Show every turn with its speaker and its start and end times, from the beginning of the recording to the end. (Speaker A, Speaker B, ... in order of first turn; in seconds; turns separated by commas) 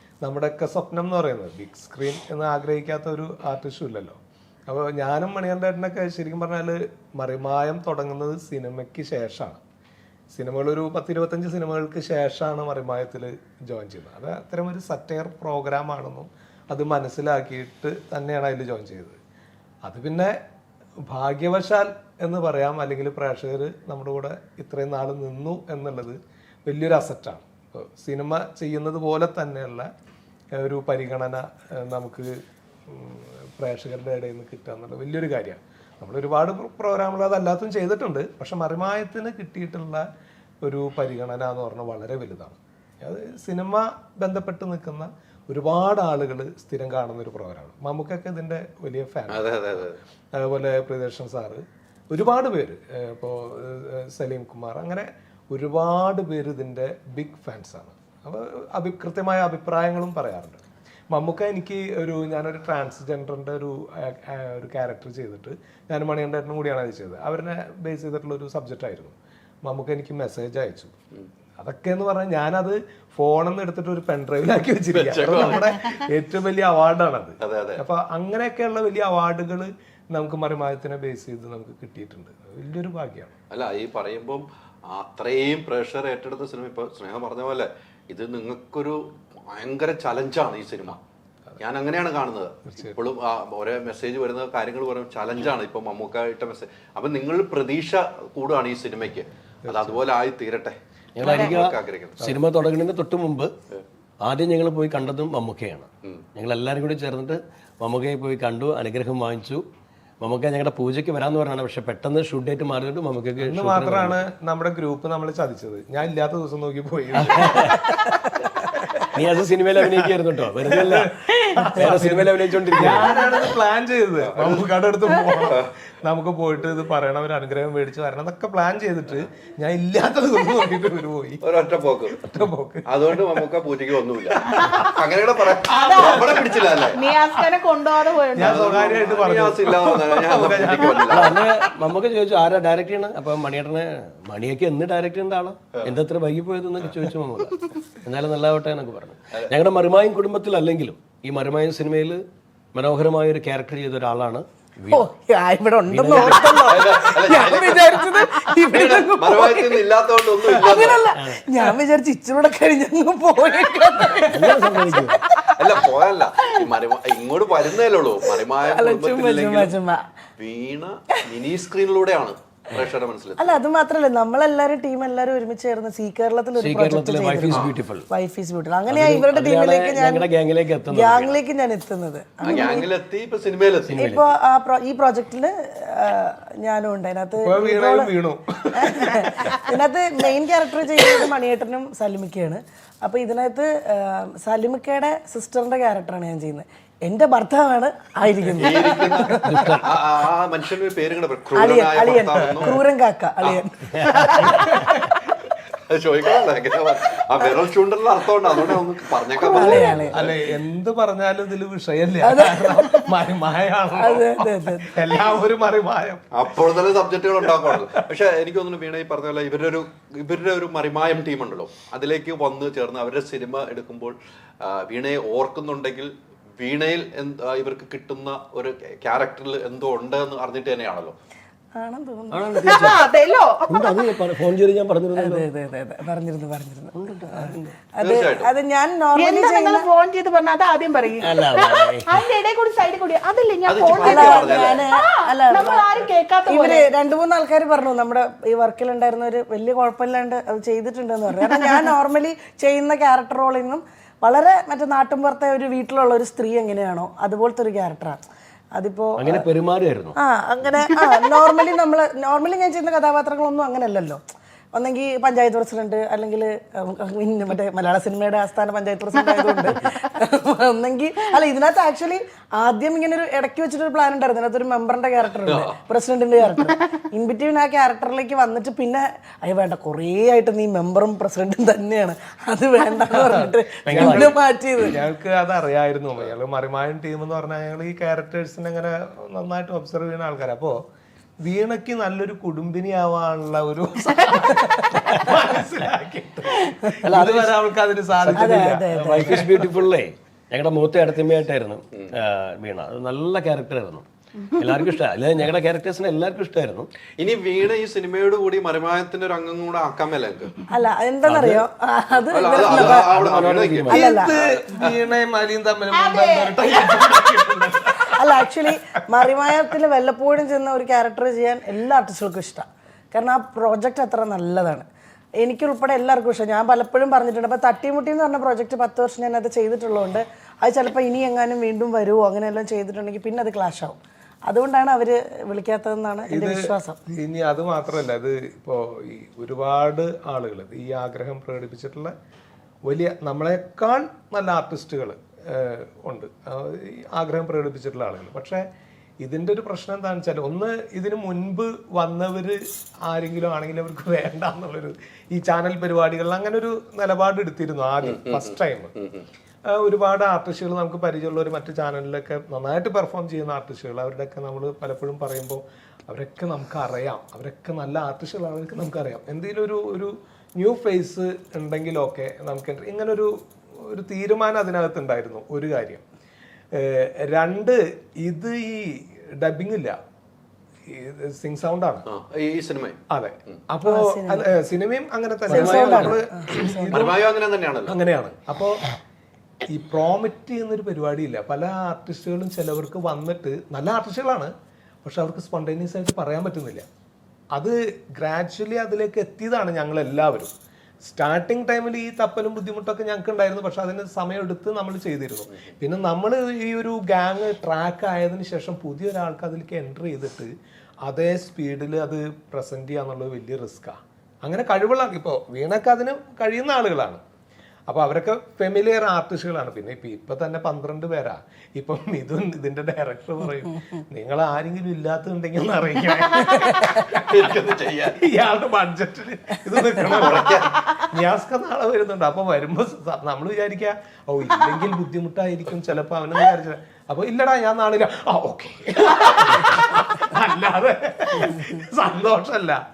Speaker A: 0.2-9.6, Speaker A: 10.3-19.2, Speaker A: 19.8-20.4, Speaker A: 21.1-29.9, Speaker A: 30.6-40.0, Speaker A: 40.6-70.9, Speaker B: 49.3-50.0, Speaker A: 71.6-83.3, Speaker B: 74.9-75.9, Speaker B: 77.4-77.8, Speaker B: 83.5-91.0, Speaker B: 91.6-102.3, Speaker A: 99.7-100.0, Speaker C: 101.2-103.5, Speaker D: 101.2-101.6, Speaker C: 104.2-109.7, Speaker C: 110.2-114.2, Speaker A: 113.4-119.1, Speaker C: 117.2-117.8, Speaker C: 119.1-123.2, Speaker A: 119.8-120.1, Speaker A: 120.7-131.5, Speaker B: 124.2-124.7, Speaker B: 125.3-125.7, Speaker B: 131.4-132.2, Speaker A: 132.1-133.5, Speaker B: 132.9-137.0, Speaker A: 134.3-141.3, Speaker D: 135.8-136.2, Speaker D: 136.9-138.8, Speaker B: 138.4-141.4, Speaker C: 141.1-152.2, Speaker C: 152.7-155.1, Speaker E: 154.9-159.9, Speaker C: 155.9-156.7, Speaker B: 156.2-161.1, Speaker E: 160.5-165.5, Speaker C: 161.1-161.6, Speaker C: 164.2-165.2, Speaker B: 165.6-169.8, Speaker E: 168.6-170.1, Speaker B: 170.4-173.6, Speaker E: 173.4-180.3, Speaker C: 176.6-178.1, Speaker C: 178.9-181.4, Speaker E: 180.9-182.9, Speaker B: 182.4-184.1, Speaker C: 183.9-184.3, Speaker E: 184.0-188.1, Speaker A: 187.4-189.6, Speaker E: 188.8-199.8, Speaker B: 198.6-202.8, Speaker C: 199.4-199.9, Speaker E: 201.6-204.7, Speaker C: 203.9-204.7, Speaker A: 204.5-205.2, Speaker B: 205.9-210.3, Speaker E: 209.4-210.2, Speaker A: 210.1-216.7, Speaker E: 212.2-213.1, Speaker E: 214.0-215.1, Speaker B: 216.3-231.1, Speaker A: 217.4-217.9, Speaker E: 231.8-232.6, Speaker C: 232.3-233.1, Speaker D: 232.7-233.9, Speaker C: 233.7-235.5, Speaker E: 235.2-239.9, Speaker C: 236.9-237.8, Speaker B: 238.0-238.5, Speaker D: 239.2-246.9, Speaker C: 241.2-242.2, Speaker B: 243.7-244.9, Speaker E: 244.0-258.2, Speaker D: 251.5-251.8, Speaker E: 258.8-259.5, Speaker C: 259.2-260.2, Speaker E: 260.2-264.2, Speaker D: 261.0-261.4, Speaker E: 264.7-285.0, Speaker B: 275.4-275.8, Speaker A: 283.2-290.8, Speaker C: 283.9-284.3, Speaker A: 291.4-299.4, Speaker C: 297.0-297.6, Speaker C: 298.2-306.9, Speaker E: 298.3-299.7, Speaker B: 307.2-310.6, Speaker E: 310.7-313.1, Speaker C: 311.2-311.7, Speaker B: 312.3-314.9, Speaker C: 312.6-314.0, Speaker A: 313.9-318.5, Speaker E: 313.9-314.4, Speaker D: 315.9-317.1, Speaker E: 318.2-324.9, Speaker E: 325.4-337.0, Speaker A: 336.3-342.1, Speaker A: 342.9-348.6, Speaker A: 349.2-358.9, Speaker B: 358.0-359.2, Speaker A: 359.7-376.0, Speaker A: 376.7-380.0, Speaker A: 380.9-382.1, Speaker B: 382.1-383.0, Speaker A: 383.1-387.3, Speaker E: 383.9-384.4, Speaker C: 385.5-386.2, Speaker E: 385.5-387.1, Speaker B: 386.9-387.9, Speaker A: 387.9-388.8, Speaker A: 389.7-394.5, Speaker A: 395.1-396.9, Speaker A: 397.5-400.5, Speaker A: 401.0-410.5, Speaker A: 411.0-417.2, Speaker A: 417.9-427.3, Speaker B: 427.0-428.2, Speaker A: 428.2-442.8, Speaker B: 430.1-430.7